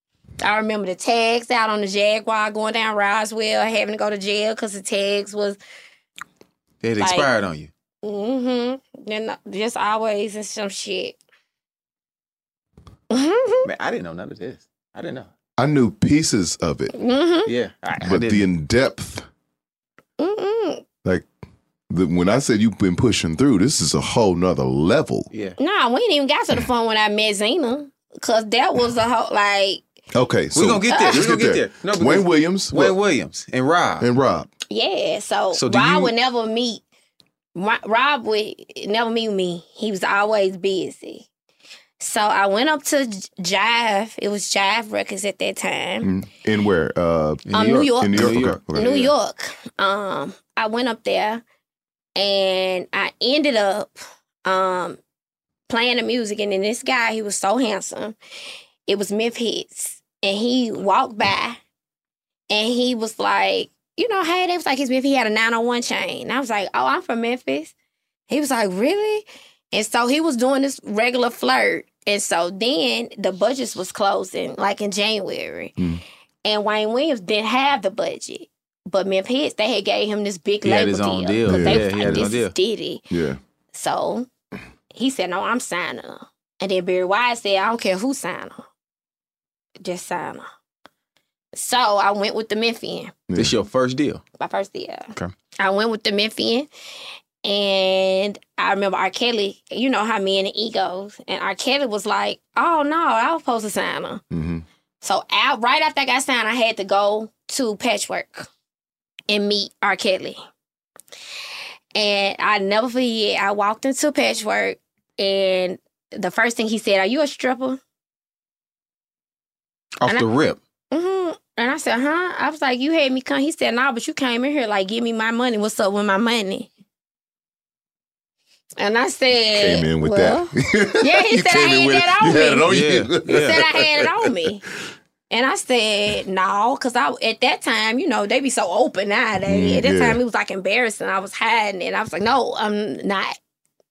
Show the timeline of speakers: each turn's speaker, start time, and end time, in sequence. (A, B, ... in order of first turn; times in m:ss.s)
0:00.4-0:05.6 A
0:06.8-0:07.7 B
0:07.0-0:07.3 A
0:08.0-0:11.2 A
0:13.1-0:13.6 A
0:13.6-0:15.3 B
0:15.6-0:16.9 C
0:16.9-0:17.5 A
0:17.4-0:18.4 B
0:18.0-0:19.2 C
0:20.2-0:20.8 A
0:21.9-0:25.3 C
0:25.6-0:29.8 A
0:30.1-0:33.0 C
0:30.5-0:34.1 B
0:30.9-0:31.2 A
0:34.0-0:34.5 C
0:34.7-0:36.8 A
0:35.5-0:36.1 B
0:37.6-0:41.3 A
0:42.0-0:46.1 A
0:46.0-0:48.7 C
0:47.5-0:49.1 B
0:47.5-0:51.4 A
0:52.2-0:53.9 A
0:54.4-0:55.0 A
0:55.7-0:58.2 A
0:58.8-1:01.6 A
1:02.5-1:07.7 A
1:08.3-1:15.8 A
1:15.8-1:16.0 C
1:16.4-1:23.0 A
1:20.6-1:22.5 B
1:21.4-1:22.3 C
1:23.1-1:23.4 C
1:23.7-1:24.3 A
1:24.9-1:28.6 A
1:29.8-1:30.4 A
1:31.5-1:33.1 A
1:33.3-1:33.5 C
1:33.3-1:34.2 B
1:34.4-1:36.7 A
1:37.4-1:44.2 A
1:44.3-1:44.6 C
1:45.0-1:48.5 A
1:49.3-1:50.4 A
1:51.9-1:57.8 A
2:00.0-2:00.6 B
2:00.9-2:06.7 A
2:08.8-2:12.7 A
2:09.5-2:14.3 C
2:12.7-2:13.6 B
2:13.2-2:14.6 A
2:15.3-2:23.4 A
2:19.5-2:20.2 C